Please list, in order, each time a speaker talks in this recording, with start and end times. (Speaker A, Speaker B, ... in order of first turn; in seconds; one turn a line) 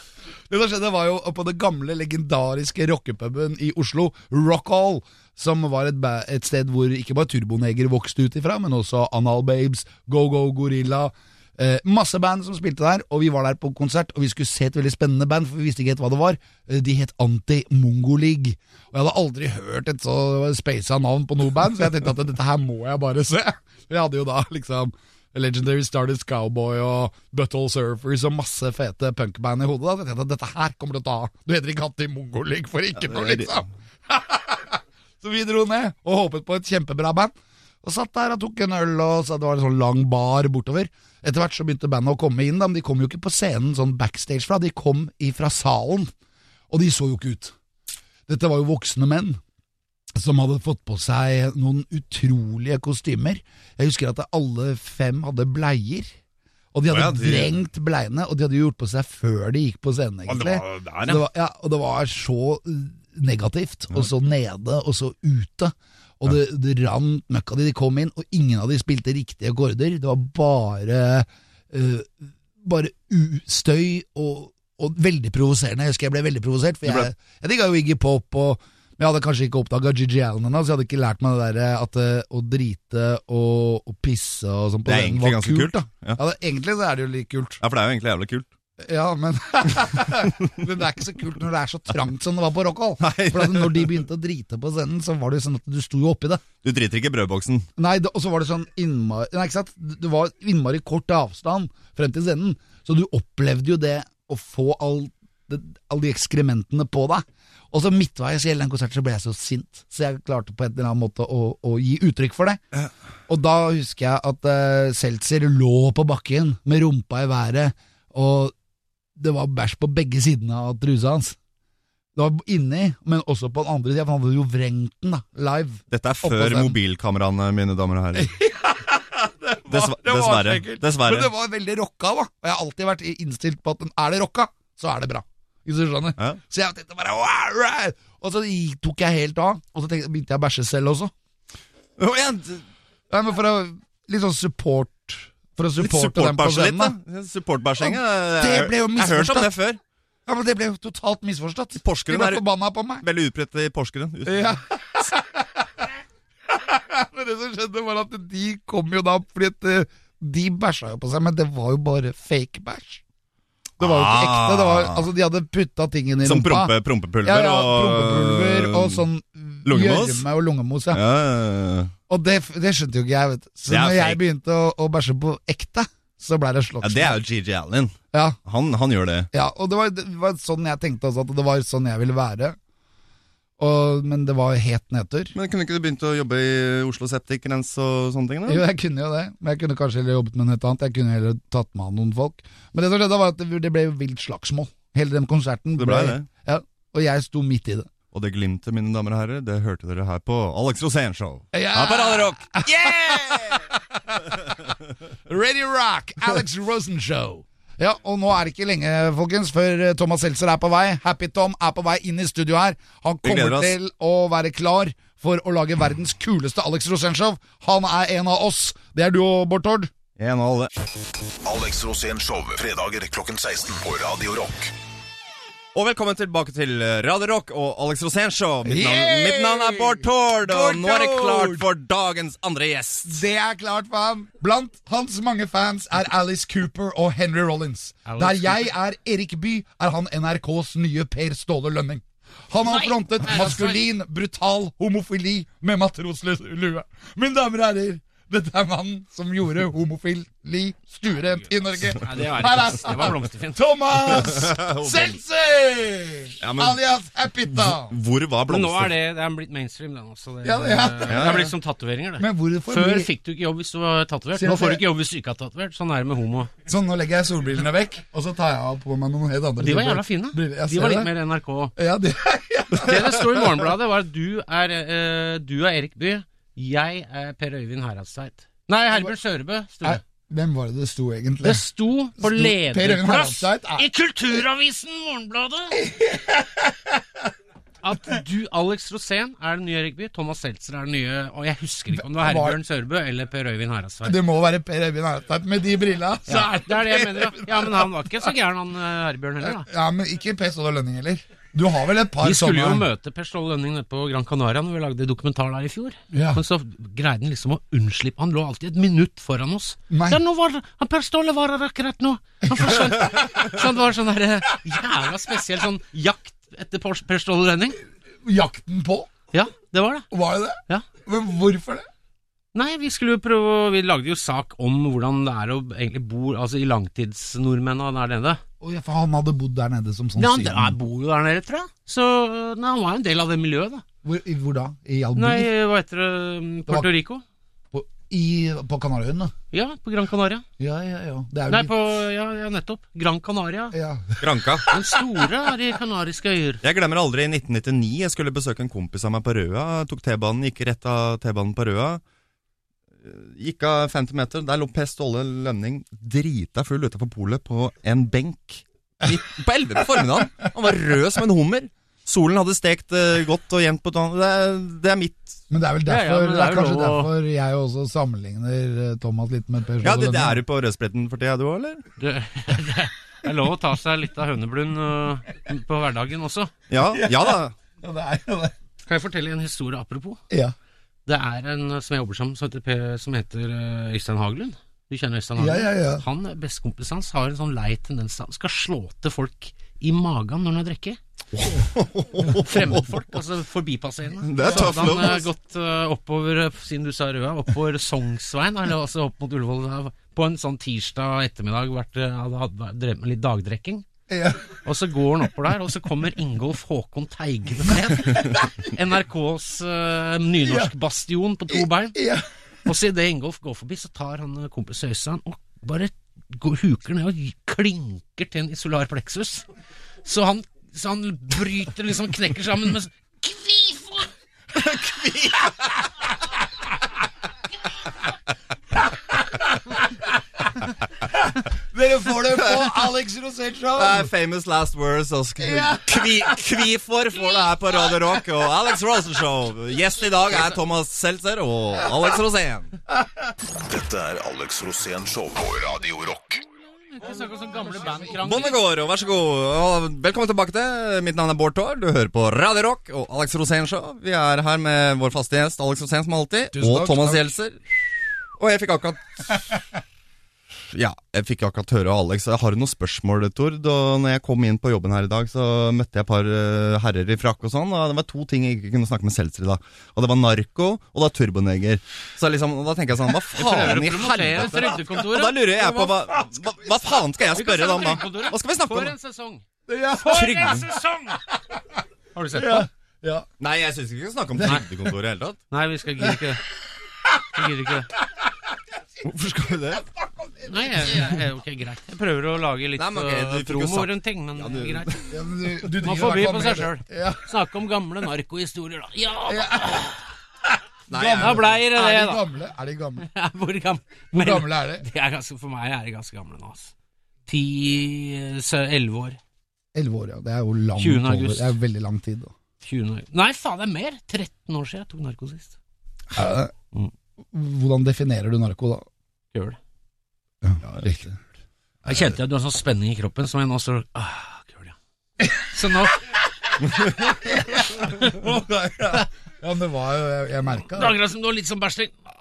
Speaker A: 0.5-46.1
Speaker B: 33.0-33.6
Speaker A: 46.7-47.5
Speaker A: 48.3-49.4
Speaker A: 50.2-56.1
Speaker A: 56.7-87.6
Speaker B: 56.9-57.6
Speaker B: 60.3-61.2
Speaker B: 76.8-77.1
Speaker B: 84.8-86.2
Speaker B: 87.6-88.5
Speaker A: 88.8-96.4
Speaker B: 93.0-94.0
Speaker B: 96.6-97.7
Speaker A: 97.8-112.6
Speaker A: 113.3-118.5
Speaker A: 119.2-121.4
Speaker A: 122.2-126.8
Speaker B: 125.9-128.3
Speaker A: 128.2-141.1
Speaker B: 129.7-131.3
Speaker B: 142.0-142.6
Speaker A: 143.1-146.9
Speaker B: 145.8-149.8
Speaker A: 147.8-149.5
Speaker A: 150.3-153.1
Speaker B: 151.8-152.4
Speaker B: 153.0-154.5
Speaker A: 154.3-155.9
Speaker A: 156.5-163.0
Speaker B: 163.8-165.1
Speaker A: 163.8-171.0
Speaker B: 166.2-169.1
Speaker B: 169.7-170.3
Speaker B: 170.9-171.9
Speaker A: 172.1-177.2
Speaker B: 173.7-174.2
Speaker B: 176.8-179.3
Speaker A: 179.3-182.6
Speaker A: 183.6-185.3
Speaker B: 185.3-188.6
Speaker A: 188.5-197.9
Speaker B: 195.8-196.3
Speaker B: 198.1-203.7
Speaker A: 201.5-204.7
Speaker A: 205.3-219.9
Speaker B: 213.2-213.8
Speaker B: 220.2-220.7
Speaker C: 221.4-224.7
Speaker B: 225.7-233.2
Speaker A: 228.7-231.7
Speaker A: 233.1-257.9
Speaker D: 238.1-238.7
Speaker D: 242.6-243.8
Speaker D: 251.9-253.7
Speaker B: 254.0-255.2
Speaker B: 256.4-256.8
Speaker B: 257.5-258.9
Speaker D: 258.5-266.5
Speaker A: 260.4-261.5
Speaker B: 261.1-261.5
Speaker A: 262.2-263.1
Speaker A: 264.4-264.8
Speaker A: 266.7-271.1
Speaker D: 269.6-271.7
Speaker A: 271.8-273.4
Speaker D: 272.7-280.0
Speaker A: 279.8-281.6
Speaker D: 281.4-285.8
Speaker A: 282.2-283.9
Speaker A: 285.8-286.7
Speaker D: 287.8-294.2
Speaker A: 292.0-292.6
Speaker A: 294.0-297.9
Speaker D: 296.3-299.7
Speaker A: 299.4-302.9
Speaker D: 302.2-317.8
Speaker A: 306.1-306.4
Speaker A: 309.9-310.2
Speaker A: 312.5-313.7
Speaker A: 318.2-319.1
Speaker D: 319.3-320.1
Speaker A: 320.1-321.9
Speaker D: 322.5-328.4
Speaker A: 328.6-330.8
Speaker D: 330.2-333.8
Speaker A: 334.0-335.5
Speaker D: 335.1-337.2
Speaker A: 337.7-339.3
Speaker D: 339.5-340.4
Speaker A: 340.6-341.7
Speaker D: 341.5-343.8
Speaker A: 343.7-344.8
Speaker B: 344.2-344.7
Speaker D: 344.7-346.6
Speaker B: 346.6-352.0
Speaker B: 353.0-365.4
Speaker A: 365.5-370.4
Speaker D: 365.9-367.1
Speaker B: 369.8-371.8
Speaker D: 372.0-376.5
Speaker B: 376.7-377.5
Speaker A: 376.9-378.5
Speaker D: 378.9-380.2
Speaker D: 381.1-391.0
Speaker A: 385.4-386.0
Speaker B: 391.4-393.1
Speaker D: 392.3-403.9
Speaker B: 394.2-395.3
Speaker A: 394.4-394.7
Speaker A: 404.1-404.6
Speaker D: 404.6-412.0
Speaker A: 410.4-410.7
Speaker A: 411.5-412.2
Speaker D: 412.7-419.5
Speaker D: 420.0-424.1
Speaker B: 424.5-425.8
Speaker A: 429.4-429.6
Speaker A: 431.1-434.1
Speaker B: 432.5-432.7
Speaker B: 433.8-442.7
Speaker A: 435.4-436.4
Speaker C: 443.6-446.4
Speaker D: 446.8-448.6
Speaker A: 447.1-448.2
Speaker B: 448.2-457.8
Speaker A: 456.5-457.2
Speaker B: 458.3-459.5
Speaker B: 460.7-478.9
Speaker D: 473.4-475.4
Speaker A: 475.5-476.8
Speaker D: 477.3-481.2
Speaker A: 479.7-480.6
Speaker B: 480.1-480.7
Speaker D: 482.1-482.7
Speaker A: 482.3-483.3
Speaker B: 483.4-485.4
Speaker A: 484.4-484.7
Speaker D: 485.5-486.4
Speaker D: 487.3-487.9
Speaker B: 489.0-489.9
Speaker A: 490.2-491.2
Speaker D: 490.4-495.1
Speaker B: 492.8-495.1
Speaker A: 495.1-497.2
Speaker D: 495.7-500.0
Speaker A: 499.3-499.9
Speaker B: 500.9-501.6
Speaker A: 500.9-503.1
Speaker D: 501.2-502.2
Speaker D: 503.0-506.7
Speaker A: 504.1-504.9
Speaker D: 507.3-509.2
Speaker A: 509.7-512.3
Speaker D: 510.8-511.6
Speaker D: 512.6-515.5
Speaker A: 516.1-516.5
Speaker A: 517.3-518.9
Speaker A: 520.4-521.2
Speaker D: 521.9-524.8
Speaker B: 521.9-522.2
Speaker D: 525.4-526.0
Speaker A: 526.8-531.0
Speaker D: 530.7-532.0